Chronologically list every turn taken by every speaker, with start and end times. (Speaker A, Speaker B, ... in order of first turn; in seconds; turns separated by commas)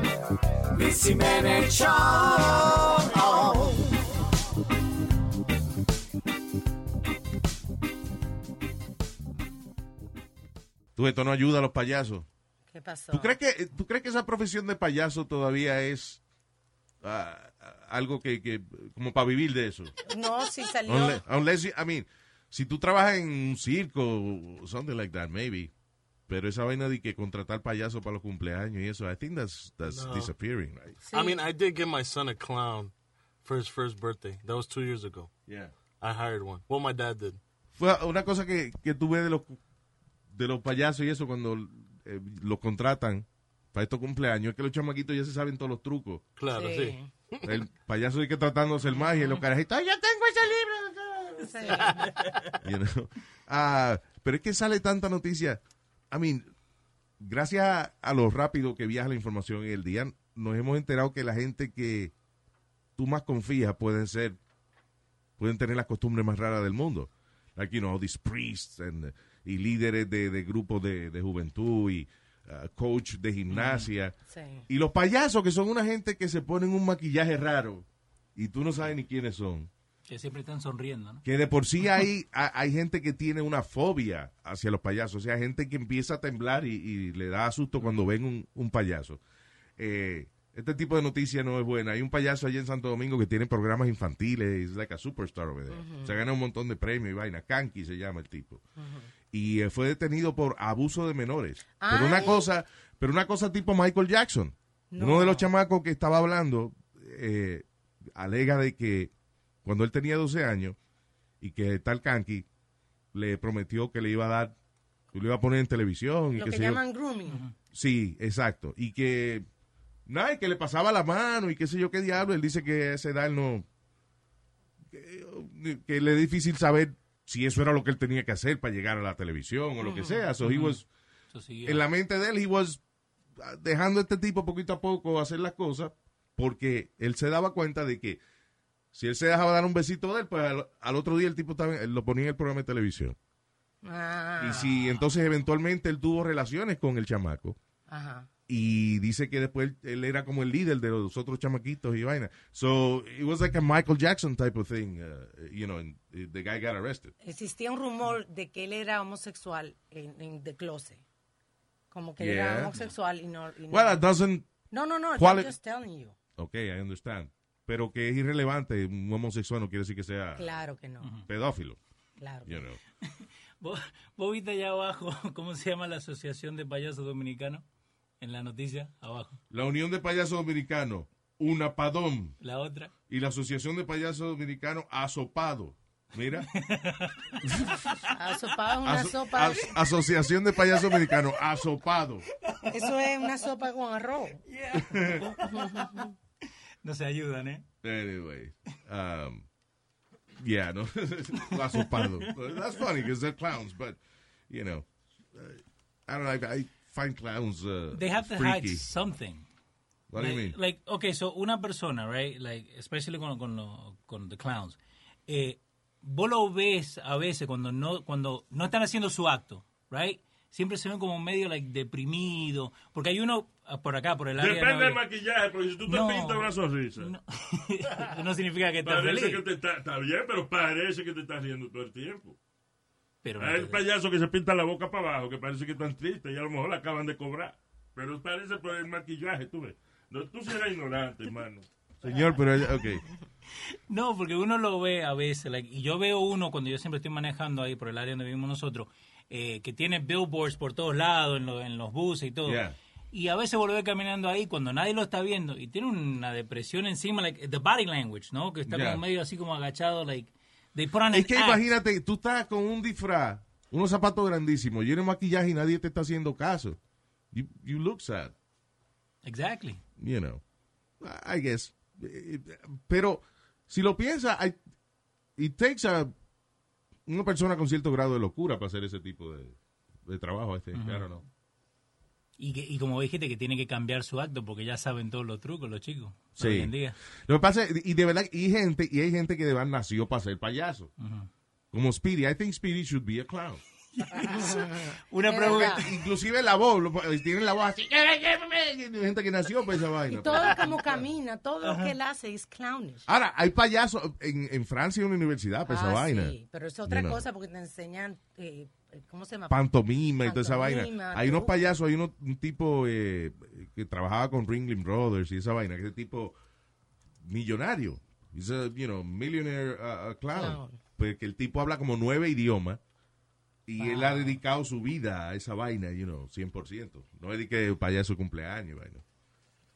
Speaker A: 0.7-3.9, Speaker B: 11.0-12.3, Speaker C: 12.7-13.4, Speaker B: 13.1-16.2, Speaker B: 17.0-19.9, Speaker C: 20.1-21.2, Speaker B: 20.9-25.7, Speaker B: 26.3-31.0, Speaker D: 29.9-30.3, Speaker C: 31.1-31.4, Speaker D: 31.1-32.9, Speaker D: 33.4-35.3, Speaker B: 35.5-35.7, Speaker D: 36.0-37.4, Speaker B: 37.8-39.6, Speaker B: 40.3-46.2, Speaker D: 46.4-47.5, Speaker C: 46.5-47.1, Speaker B: 47.4-51.2, Speaker C: 51.4-52.1, Speaker B: 52.6-55.6, Speaker B: 56.1-56.5, Speaker B: 57.2-62.1, Speaker B: 63.0-64.4, Speaker B: 65.4-74.2, Speaker E: 73.5-73.9, Speaker C: 74.3-74.7, Speaker B: 74.7-79.7, Speaker E: 80.1-81.2, Speaker B: 81.2-89.2, Speaker B: 89.8-98.6, Speaker C: 95.7-96.2, Speaker C: 98.8-99.1, Speaker B: 99.3-109.1, Speaker C: 101.8-102.5, Speaker C: 104.9-105.5, Speaker B: 109.6-110.8, Speaker B: 111.4-112.5, Speaker B: 113.1-114.6, Speaker B: 115.1-116.8, Speaker C: 116.4-117.5, Speaker E: 117.3-117.5, Speaker B: 117.7-119.5, Speaker B: 120.1-123.7, Speaker B: 124.9-130.9, Speaker C: 129.8-130.3, Speaker E: 130.4-130.8, Speaker E: 131.3-131.8, Speaker B: 131.7-132.8, Speaker B: 133.4-138.2, Speaker B: 138.9-143.2, Speaker C: 143.8-145.1, Speaker B: 144.4-147.6, Speaker C: 147.9-148.3, Speaker B: 148.5-157.1, Speaker C: 157.2-161.0, Speaker C: 161.9-164.1, Speaker B: 162.2-162.8, Speaker B: 163.7-164.5, Speaker C: 164.7-166.2, Speaker B: 165.2-165.5, Speaker B: 166.4-170.5, Speaker C: 170.4-171.1, Speaker B: 171.3-171.8, Speaker C: 172.2-172.6, Speaker B: 172.5-172.8, Speaker E: 173.2-177.6, Speaker E: 178.2-179.4, Speaker B: 179.5-182.4, Speaker E: 182.4-182.9, Speaker B: 183.1-186.5, Speaker E: 186.5-187.3, Speaker B: 187.4-187.8, Speaker C: 188.1-189.7, Speaker B: 188.8-192.2, Speaker C: 192.7-194.4, Speaker E: 194.5-196.1, Speaker B: 194.7-195.3, Speaker C: 195.4-196.1, Speaker E: 196.8-197.6, Speaker B: 197.8-199.5, Speaker B: 200.4-208.9, Speaker E: 201.7-202.1, Speaker E: 207.9-209.5, Speaker B: 210.1-210.6, Speaker E: 210.2-225.0, Speaker F: 224.4-227.1, Speaker E: 225.9-229.4, Speaker F: 228.8-232.4, Speaker E: 233.2-233.8, Speaker F: 233.4-241.7, Speaker B: 242.0-243.0, Speaker E: 243.9-261.6, Speaker B: 252.4-252.8, Speaker B: 258.7-259.0, Speaker B: 261.1-266.8, Speaker B: 267.3-268.3, Speaker E: 269.2-269.8, Speaker B: 270.0-270.4, Speaker B: 271.0-274.6, Speaker B: 275.4-276.1, Speaker B: 277.1-281.2, Speaker E: 280.7-281.1, Speaker E: 282.4-286.9, Speaker B: 286.4-286.7, Speaker B: 287.3-290.9, Speaker E: 291.0-291.3, Speaker B: 291.7-293.6, Speaker E: 294.0-296.0, Speaker C: 294.1-295.8, Speaker B: 295.4-301.0, Speaker C: 300.1-303.1, Speaker E: 301.6-301.9, Speaker B: 303.1-306.4, Speaker C: 305.7-309.6, Speaker B: 306.9-307.2, Speaker B: 309.5-316.4, Speaker C: 310.2-311.7, Speaker B: 317.2-322.8, Speaker C: 320.3-320.8, Speaker B: 323.7-329.0, Speaker C: 323.8-324.4